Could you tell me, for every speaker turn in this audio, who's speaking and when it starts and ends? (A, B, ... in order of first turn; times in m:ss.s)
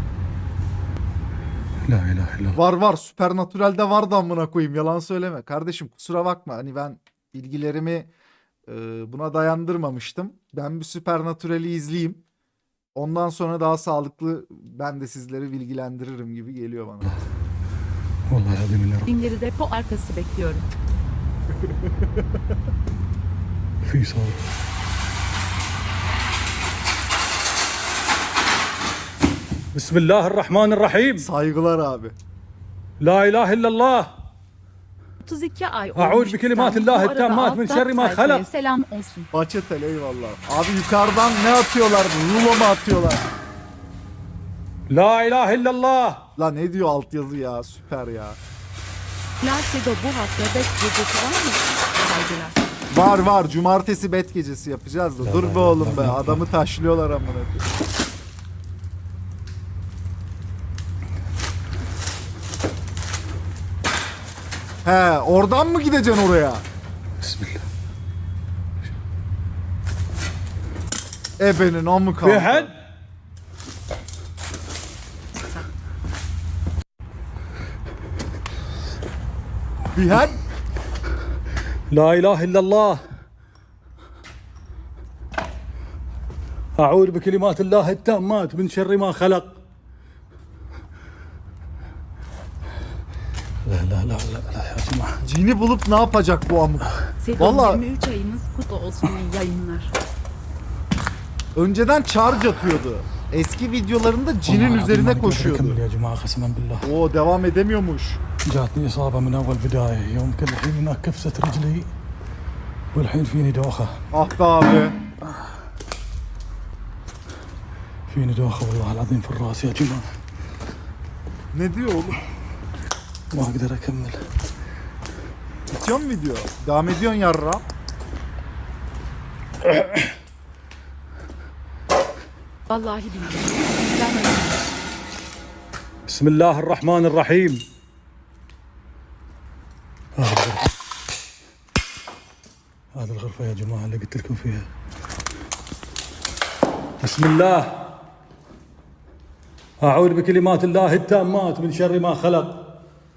0:01.9-0:02.6 A
0:02.6-0:08.1 B
0:08.7-0:12.2 B
0:13.0-0:17.1 B
0:18.3-0:19.1 A
0:19.1-0:20.7 C
0:23.8-0:24.4 A
0:29.7-0:31.3 A
0:31.2-0:32.2 B
0:33.0-0:34.1 A
0:35.2-0:39.3 C
0:36.0-0:38.5 A
0:39.3-0:43.2 B
0:44.9-0:46.2 A
0:46.4-0:48.4 B
0:49.4-0:52.6 C
0:52.9-0:57.6 B
0:55.2-0:56.5 A
1:04.8-1:06.6 B
1:07.2-1:07.6 A
1:11.4-1:12.7 B
1:12.2-1:12.7 A
1:19.9-1:20.4 B
1:21.9-1:23.0 A
1:26.8-1:29.6 A
1:33.6-1:35.2 A
1:35.2-1:37.8 B
1:37.2-1:39.9 C
1:41.6-1:45.8 B
1:44.5-1:46.9 A
1:46.8-1:48.2 B
1:48.4-1:51.9 A
1:52.9-1:54.0 A
1:54.1-1:55.0 B
1:58.1-2:00.1 A
2:01.5-2:02.2 B
2:03.3-2:04.2 A
2:05.7-2:07.6 B
2:09.6-2:10.1 A
2:12.7-2:14.7 C
2:16.1-2:17.6 A
2:20.2-2:20.7 A
2:22.9-2:24.7 A
2:27.0-2:27.8 A
2:29.8-2:32.6 A